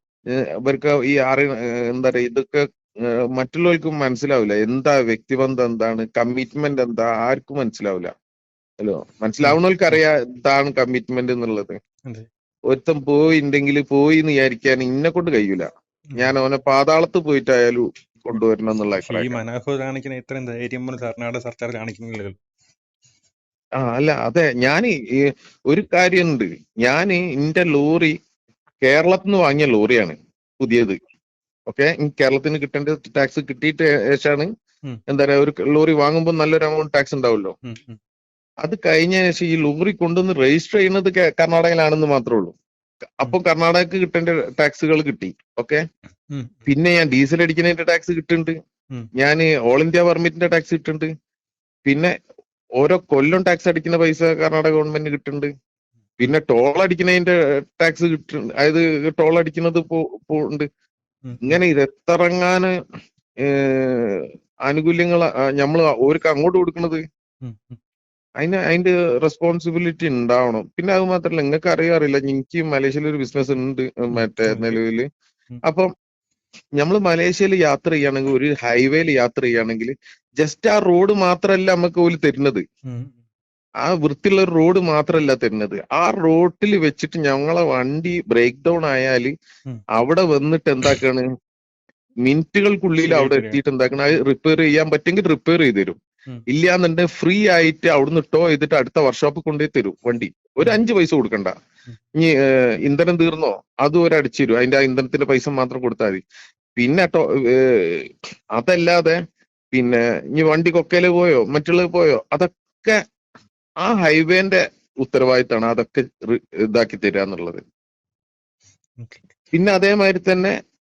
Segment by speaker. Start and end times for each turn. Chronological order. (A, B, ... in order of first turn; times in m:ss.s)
0:00.6-0:02.6 A
0:03.3-0:08.1 A
0:08.8-0:11.8 A
0:09.4-0:10.0 B
0:12.7-0:19.4 A
0:19.0-0:22.4 B
0:23.8-0:28.2 A
0:28.8-0:31.0 A
0:31.7-0:34.5 A
0:35.1-0:37.6 A
0:37.6-0:38.0 B
0:38.6-0:42.6 A
0:43.2-0:45.8 A
0:46.3-0:46.7 B
0:46.7-0:48.6 A
0:49.2-0:51.1 A
0:51.9-0:52.1 A
0:52.8-0:55.5 A
0:56.2-1:00.7 A
1:01.2-1:01.6 B
1:01.4-1:02.7 A
1:03.4-1:07.0 A
1:07.4-1:07.8 B
1:08.4-1:15.1 A
1:14.1-1:14.8 B
1:15.6-1:15.9 A
1:16.8-1:22.6 A
1:22.9-1:23.1 B
1:23.8-1:29.3 A
1:30.0-1:31.2 A
1:32.2-1:41.5 A
1:33.0-1:33.6 B
1:42.2-1:46.2 A
1:46.8-1:49.2 A
1:49.7-1:53.0 A
1:53.8-1:57.6 A
1:59.0-1:59.2 B
1:59.5-2:00.6 A